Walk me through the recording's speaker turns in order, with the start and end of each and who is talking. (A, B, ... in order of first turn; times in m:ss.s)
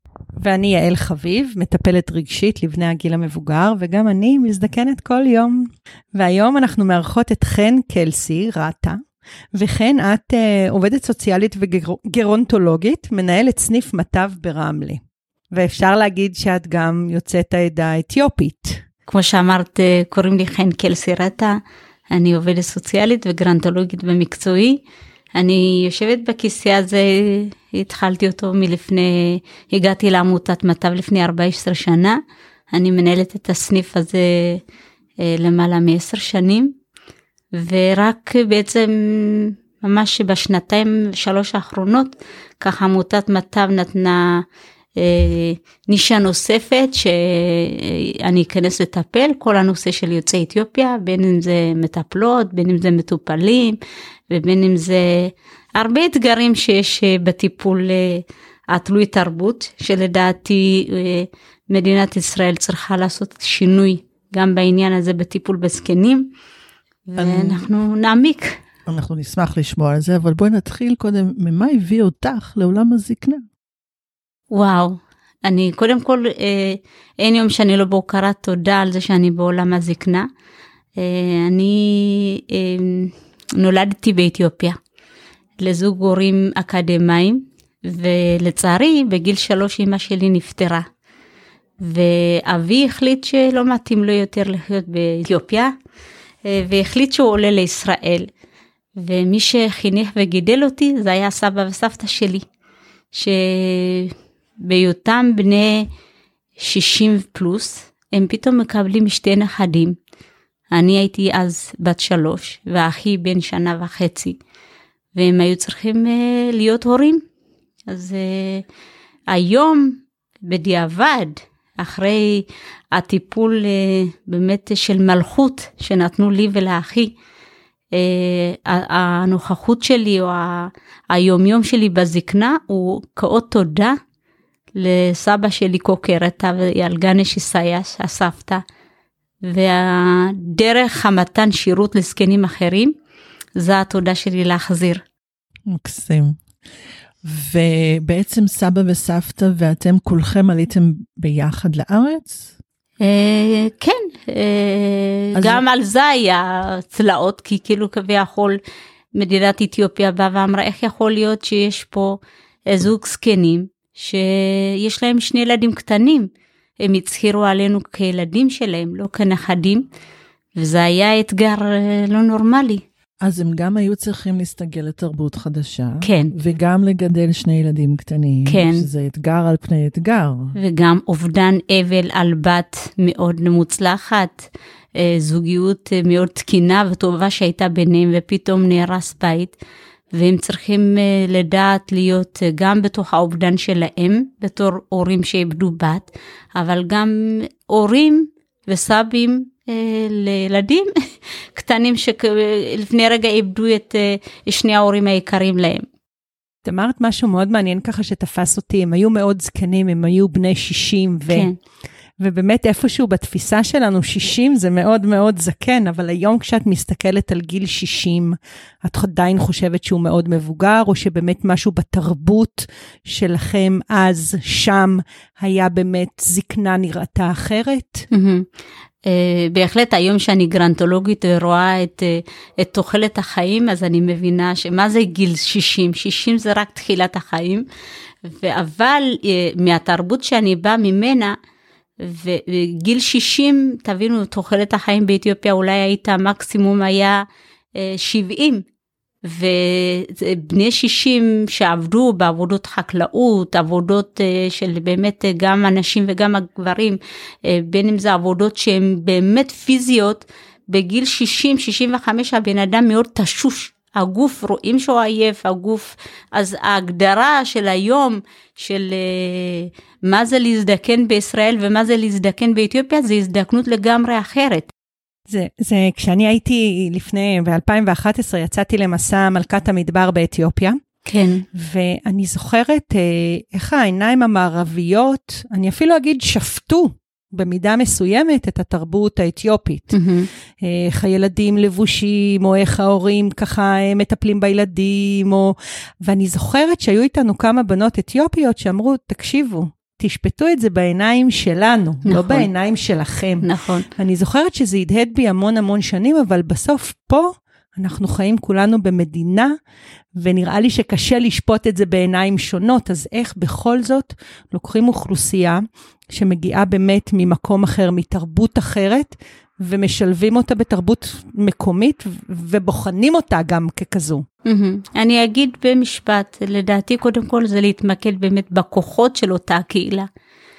0:00.4-0:09.0 A
0:09.5-0:15.0 A
0:15.5-0:18.8 A
0:19.1-0:21.6 B
0:22.1-0:24.8 B
0:25.4-0:32.2 B
0:32.7-0:34.6 B
0:35.2-0:36.7 B
0:37.5-0:44.4 B
0:45.0-0:53.8 B
0:54.3-1:06.3 B
1:07.1-1:08.6 B
1:07.2-1:07.7 C
1:08.8-1:13.4 C
1:14.5-1:20.3 B
1:21.0-1:24.8 B
1:25.6-1:30.8 B
1:31.8-1:35.7 B
1:36.4-1:38.3 B
1:39.0-1:42.4 B
1:43.1-1:45.9 B
1:46.6-1:50.0 B
1:50.7-1:54.4 B
1:55.1-1:57.2 B
1:57.9-1:58.6 B
1:59.3-2:07.1 B
2:07.9-2:14.0 B
2:14.7-2:18.6 B
2:19.4-2:22.9 B
2:23.6-2:25.0 B
2:25.7-2:26.4 C
2:27.2-2:32.5 C
2:33.0-2:38.6 B
2:35.3-2:35.6 C
2:39.1-2:49.9 B
2:50.5-2:52.8 B
2:53.2-3:00.5 C
2:56.0-2:56.3 B
2:58.4-2:58.8 B
3:00.5-3:09.5 B
3:10.1-3:20.9 B
3:21.5-3:25.8 B
3:26.6-3:31.5 A
3:31.3-3:31.6 B
3:32.2-3:48.0 A
3:48.1-3:48.5 B
3:49.0-3:57.6 B
3:58.2-4:01.3 B
4:02.0-4:08.6 B
4:09.2-4:34.7 B
4:35.3-4:40.8 A
4:41.0-4:41.4 B
4:41.5-4:50.0 A
4:49.9-4:50.3 B
4:50.6-5:09.5 A
5:02.0-5:02.5 B
5:03.4-5:03.9 B
5:10.2-5:24.2 A
5:24.4-5:30.1 B